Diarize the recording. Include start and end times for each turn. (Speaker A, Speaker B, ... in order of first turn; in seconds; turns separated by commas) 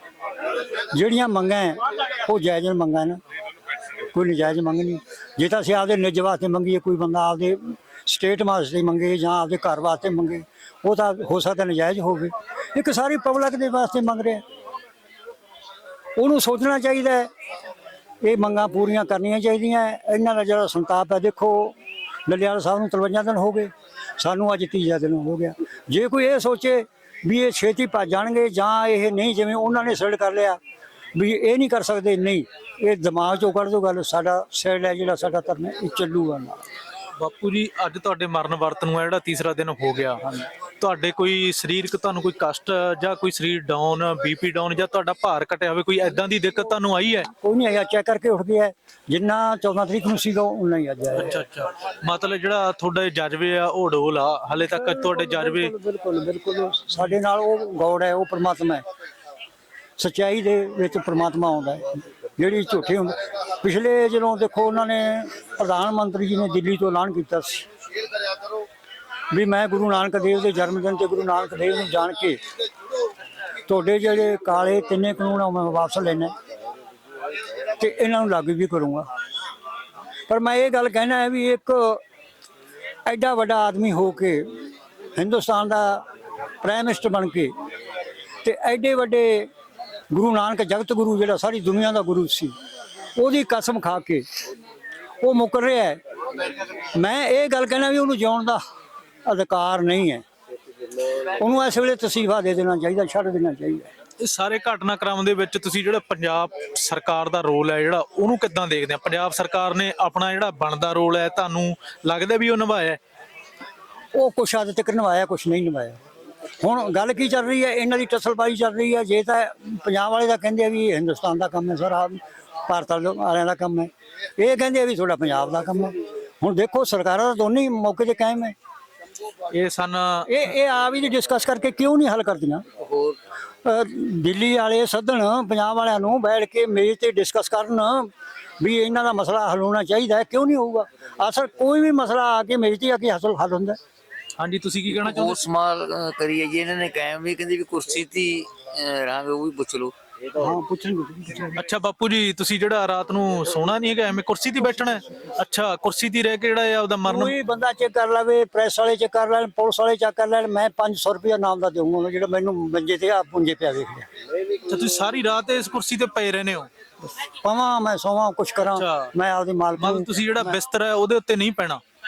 Speaker A: 0.9-3.2, Speaker A: 4.1-14.4, Speaker A: 16.2-17.3, Speaker A: 18.2-21.8, Speaker A: 22.3-30.6, Speaker A: 31.1-36.6, Speaker B: 37.2-47.3, Speaker A: 47.3-51.4, Speaker B: 51.2-55.7, Speaker A: 54.6-58.8, Speaker A: 60.0-67.7, Speaker A: 69.3-72.4, Speaker A: 73.7-76.3, Speaker A: 77.8-79.1, Speaker A: 80.3-82.0, Speaker A: 83.1-84.5, Speaker A: 85.2-86.0, Speaker A: 86.6-87.5, Speaker A: 88.4-89.5, Speaker A: 90.1-92.5, Speaker A: 93.2-94.3, Speaker A: 95.2-96.0, Speaker A: 96.8-98.6, Speaker A: 99.2-100.2, Speaker A: 101.3-103.9, Speaker B: 104.2-113.0, Speaker A: 114.1-116.0, Speaker A: 116.6-128.6, Speaker B: 129.5-130.4, Speaker A: 130.3-132.7, Speaker C: 132.8-133.2, Speaker A: 133.6-143.8, Speaker B: 144.4-145.4, Speaker C: 145.0-149.9, Speaker A: 150.3-151.6, Speaker B: 151.6-157.3, Speaker A: 157.1-164.1, Speaker B: 164.6-166.7, Speaker A: 167.2-170.1, Speaker B: 168.7-169.1, Speaker B: 169.8-171.8